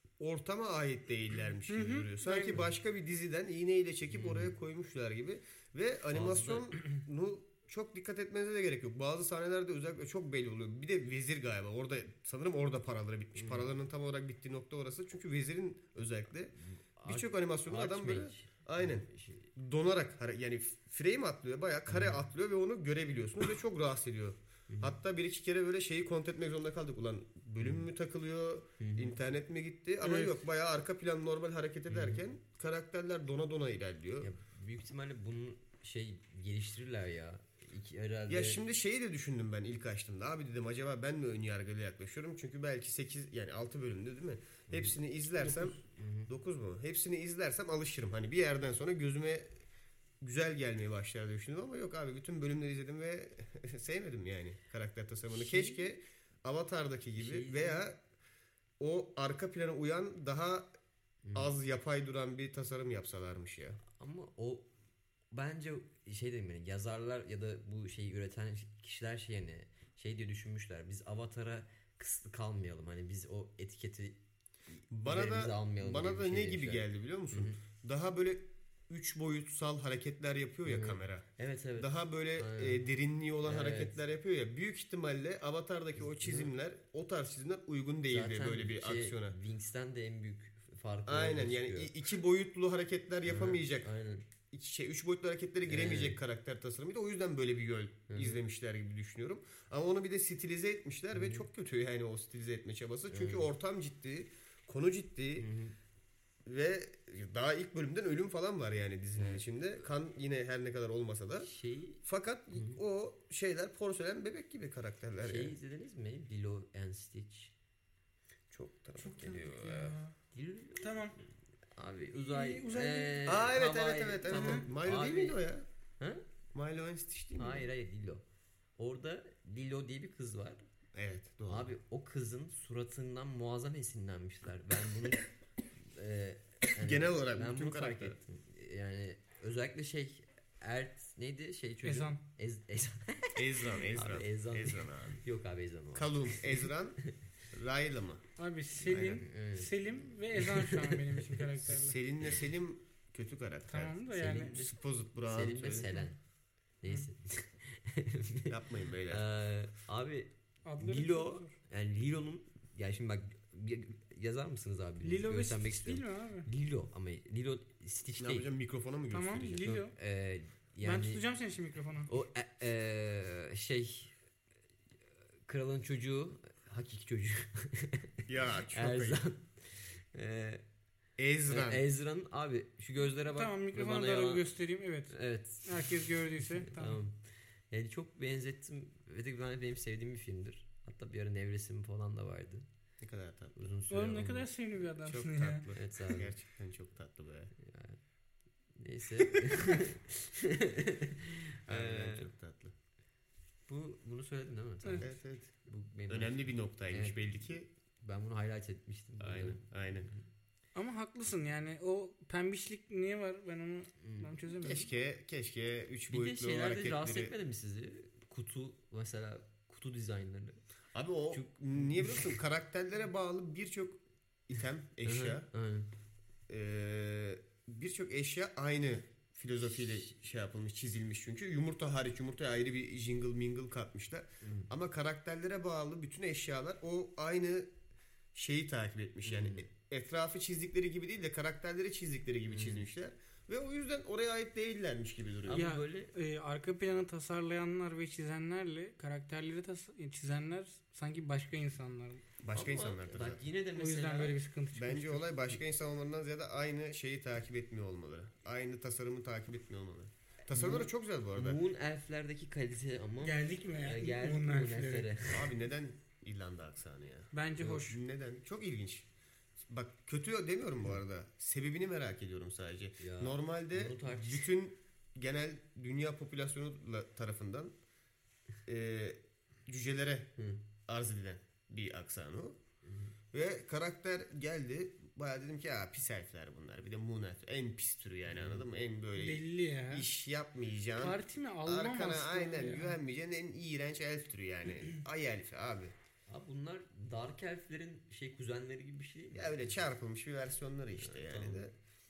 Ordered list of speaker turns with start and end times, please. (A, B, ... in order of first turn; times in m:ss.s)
0:00.2-0:34.3 A
0:01.7-0:02.6 B
0:04.1-0:04.5 C
0:06.1-0:06.8 C
0:13.4-0:13.7 C
0:16.6-0:19.5 C
0:21.9-0:22.2 C
0:24.7-0:25.0 C
0:27.6-0:27.9 C
0:28.8-0:29.2 C
0:31.9-0:32.2 C
0:34.2-0:38.6 C
0:38.3-0:49.5 A
0:44.7-0:46.3 C
0:50.2-0:58.0 A
0:55.3-0:55.9 C
0:57.2-0:57.9 C
0:58.8-1:00.7 A
1:01.2-1:01.6 C
1:01.4-1:03.8 A
1:03.8-1:04.7 C
1:05.3-1:14.2 C
1:14.7-1:17.6 C
1:14.9-1:29.4 A
1:20.7-1:22.8 C
1:23.4-1:24.0 C
1:26.1-1:26.5 C
1:28.1-1:32.0 C
1:31.1-1:45.5 A
1:33.3-1:34.3 C
1:35.7-1:36.2 C
1:38.1-1:38.4 C
1:41.1-1:41.5 C
1:43.1-1:43.5 C
1:45.4-1:45.8 C
1:46.5-1:51.5 A
1:49.2-1:49.4 C
1:51.4-1:52.0 C
1:52.0-1:55.6 A
1:55.2-1:57.5 C
1:58.5-2:00.0 A
1:59.0-2:00.2 B
2:00.3-2:01.1 C
2:00.8-2:01.2 B
2:01.7-2:05.4 C
2:02.1-2:03.4 B
2:03.3-2:05.7 A
2:04.3-2:04.6 B
2:06.0-2:06.2 C
2:06.5-2:07.7 A
2:07.4-2:08.2 C
2:08.8-2:10.6 C
2:10.9-2:11.7 A
2:11.5-2:27.2 C
2:16.8-2:18.2 A
2:21.8-2:22.2 B
2:23.4-2:25.2 A
2:25.9-2:27.0 A
2:27.5-2:28.2 A
2:28.4-2:32.0 B
2:28.8-2:29.2 A
2:28.9-2:29.7 C
2:30.3-2:31.5 C
2:31.6-2:36.0 A
2:33.7-2:34.6 B
2:34.1-2:36.2 C
2:36.8-2:48.5 C
2:38.5-2:39.3 A
2:40.6-2:41.5 B
2:45.0-2:46.5 B
2:48.2-2:49.7 A
2:49.1-2:49.9 B
2:49.6-2:51.2 C
2:50.8-2:52.1 B
2:52.1-2:54.1 C
2:55.5-3:00.6 C
2:58.3-2:59.2 A
3:01.2-3:01.8 A
3:01.5-3:04.4 C
3:03.2-3:07.0 B
3:05.1-3:05.9 C
3:06.6-3:12.7 C
3:13.0-3:13.7 A
3:13.6-3:14.5 C
3:13.9-3:15.7 B
3:15.0-3:17.5 A
3:15.8-3:16.3 C
3:17.6-3:18.0 C
3:18.8-3:22.3 C
3:21.7-3:22.7 A
3:23.7-3:25.1 C
3:25.0-3:25.5 A
3:25.6-3:30.2 C
3:26.1-3:27.7 A
3:29.2-3:30.1 A
3:30.8-3:34.9 B
3:34.0-3:34.3 C
3:34.6-3:37.3 A
3:36.1-3:40.6 C
3:40.9-3:45.5 A
3:41.3-3:42.4 C
3:45.0-3:45.9 C
3:46.5-3:57.7 A
3:54.4-3:54.7 C
3:58.3-4:05.7 A
3:59.2-3:59.7 C
4:02.5-4:02.9 C
4:05.5-4:06.1 C
4:05.5-4:12.2 B
4:12.4-4:13.4 A
4:12.5-4:14.4 C
4:13.8-4:15.3 B
4:14.7-4:21.6 A
4:20.5-4:25.5 C
4:23.2-4:25.2 B
4:25.3-4:29.1 A
4:27.3-4:28.0 B
4:29.7-4:37.7 A
4:33.0-4:34.5 C
4:38.7-4:40.3 A
4:40.4-4:40.6 C
4:40.8-4:42.6 A
4:42.8-4:43.1 C
4:43.3-4:56.0 A
4:48.3-4:48.6 C
4:49.2-4:50.1 B
4:51.0-4:53.0 B
4:56.3-4:59.8 C
4:59.4-5:01.7 A
5:01.0-5:01.7 C